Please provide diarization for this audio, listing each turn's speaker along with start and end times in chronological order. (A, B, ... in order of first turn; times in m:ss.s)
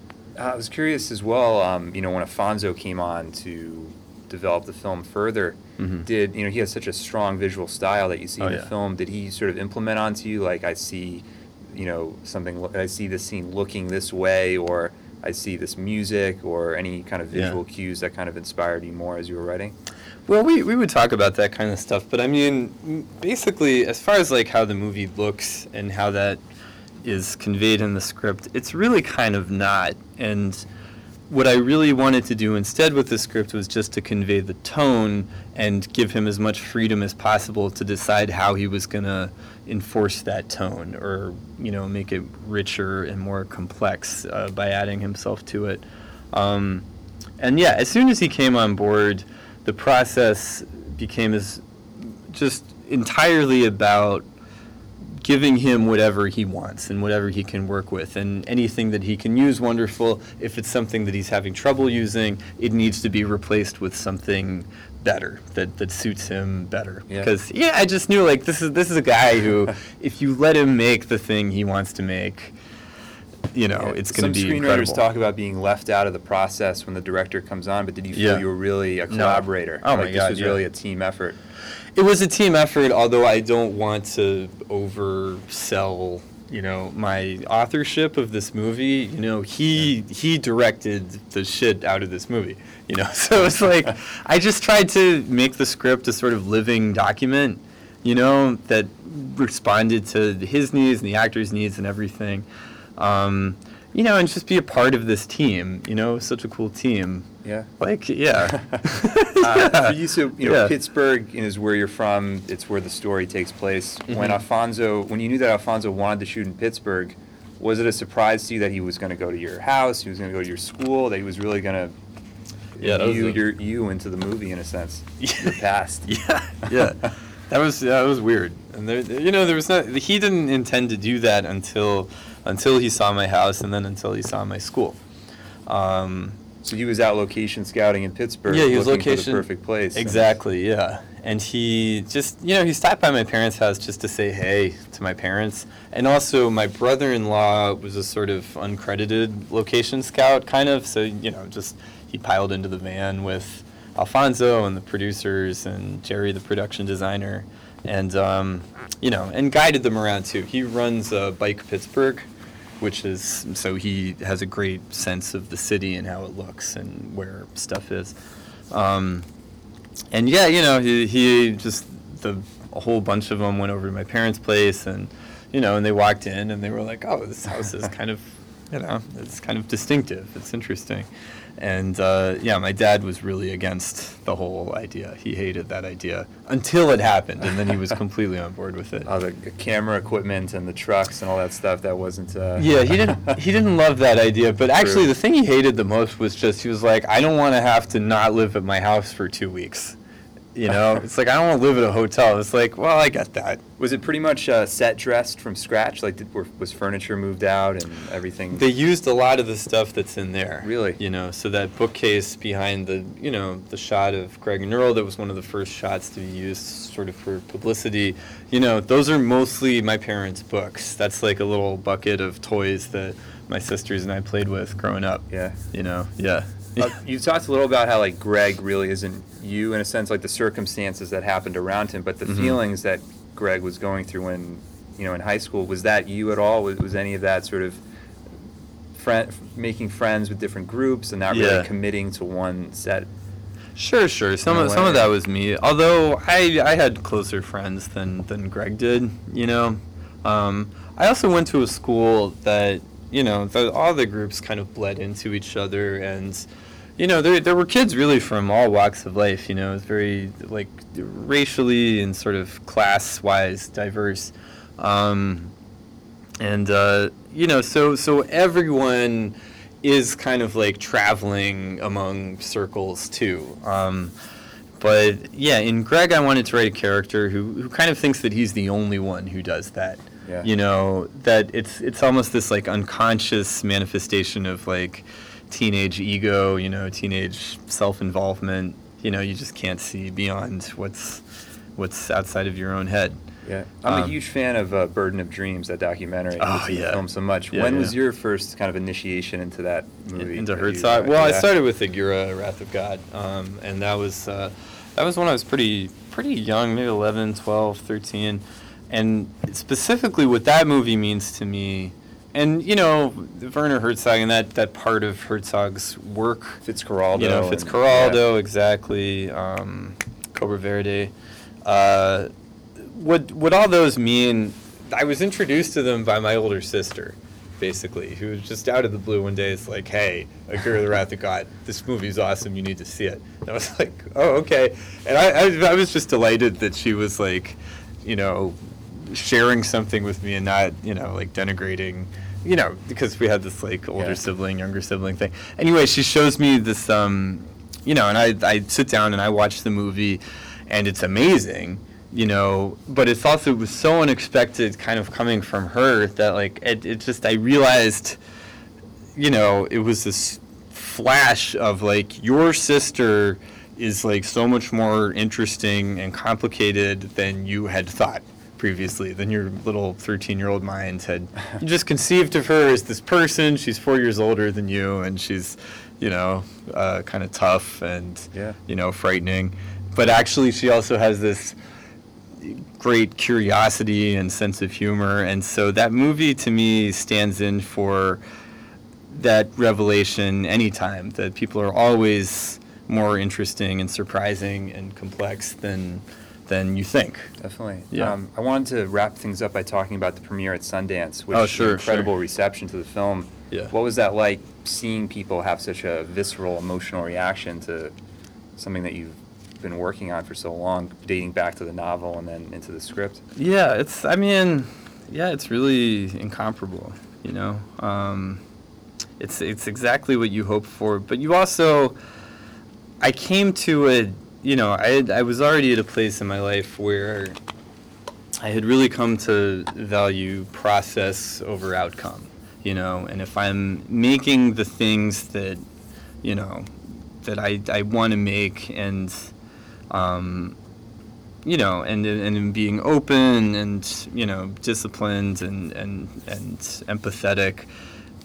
0:00.4-0:19.7 A
0:05.8-0:06.0 B
0:08.4-0:08.7 B
0:17.3-0:17.6 B
0:20.3-0:26.4 B
0:27.0-0:30.6 B
0:31.3-0:45.8 B
0:46.3-0:46.8 B
0:47.4-0:51.6 B
0:52.3-0:54.2 B
0:55.2-1:12.5 B
1:13.5-1:15.0 B
1:13.7-1:21.4 A
1:18.1-1:18.4 B
1:19.1-1:20.6 B
1:22.0-1:47.3 B
1:47.4-1:47.7 A
1:47.8-1:50.7 B
1:48.4-1:48.8 A
1:49.4-2:01.9 A
1:54.1-1:54.4 B
2:02.8-2:06.1 A
2:02.8-2:03.4 B
2:05.2-2:15.0 B
2:06.6-2:07.1 A
2:15.7-2:16.4 B
2:16.6-2:20.3 A
2:18.5-2:42.3 B
2:42.8-2:48.1 B
2:48.7-2:49.3 B
2:50.1-3:01.1 B
3:01.6-3:09.1 B
3:09.0-3:13.4 A
3:12.6-3:20.0 B
3:14.7-3:15.1 A
3:20.5-3:23.6 B
3:23.8-3:28.6 A
3:28.5-3:47.0 B
3:30.6-3:31.0 A
3:45.3-3:45.6 A
3:46.8-3:57.8 A
3:52.2-3:52.6 B
3:58.9-4:03.1 A
4:01.3-4:01.7 B
4:03.7-4:16.4 B
4:04.5-4:05.1 A
4:17.0-4:25.5 B
4:26.4-4:34.1 B
4:34.8-4:51.2 B
4:51.8-4:53.2 B
4:53.4-5:01.5 A
4:53.8-4:54.1 B
4:56.4-4:58.0 B
5:00.2-5:16.6 B
5:16.6-5:18.2 A
5:17.1-5:21.1 B
5:21.6-5:58.2 B
5:59.2-6:21.6 B
6:18.3-6:18.6 A
6:22.4-6:28.2 B
6:29.1-6:37.3 B
6:37.4-6:47.9 A
6:37.9-6:38.2 B
6:41.3-6:42.1 B
6:48.6-6:53.2 A
6:53.3-6:58.4 B
6:59.2-7:02.0 B
7:03.0-7:07.4 B
7:08.4-7:15.6 B
7:16.2-7:16.7 B
7:17.2-7:19.2 B
7:19.9-7:20.6 B
7:21.4-7:27.7 B